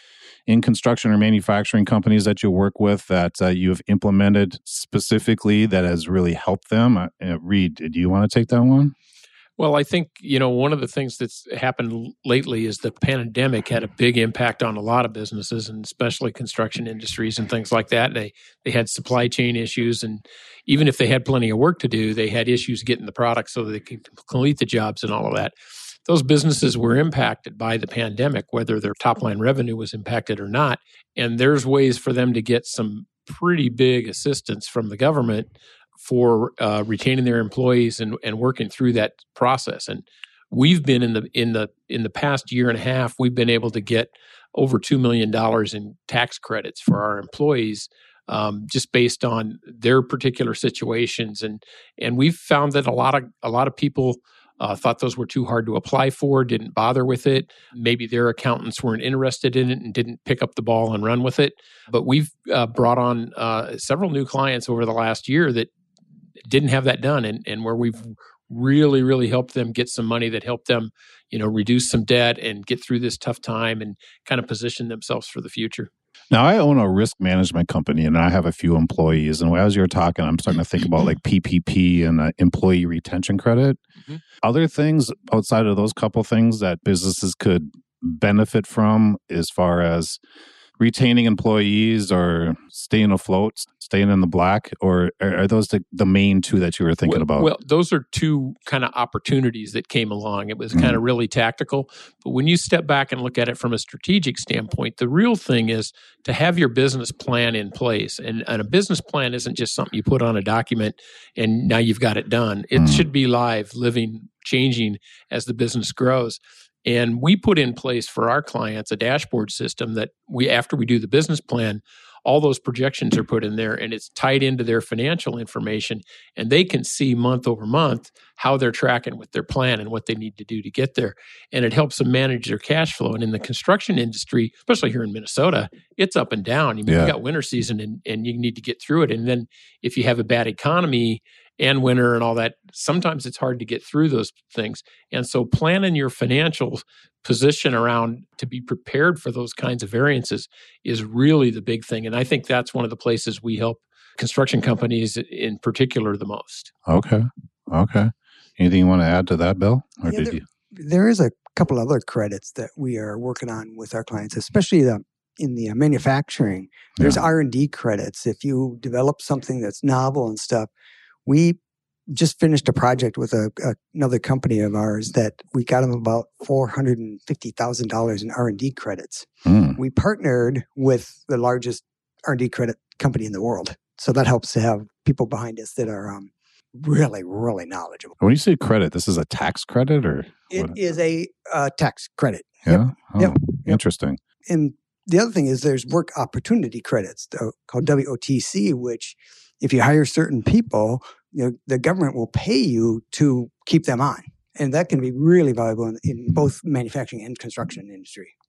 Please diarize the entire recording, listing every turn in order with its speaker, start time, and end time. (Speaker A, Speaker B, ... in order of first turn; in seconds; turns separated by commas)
Speaker A: 0.5-8.9, Speaker B: 9.6-25.6, Speaker B: 26.1-65.7, Speaker B: 66.5-75.9, Speaker A: 76.3-83.8, Speaker A: 84.4-90.2, Speaker A: 90.8-97.5, Speaker B: 97.1-156.7, Speaker A: 100.7-101.0, Speaker A: 112.8-113.0, Speaker A: 136.9-137.1, Speaker A: 156.9-160.4, Speaker C: 160.1-170.7, Speaker C: 171.3-171.6, Speaker C: 172.1-188.2, Speaker A: 179.5-179.8, Speaker A: 188.2-190.8, Speaker C: 190.5-193.8, Speaker A: 192.7-194.2, Speaker C: 194.5-208.3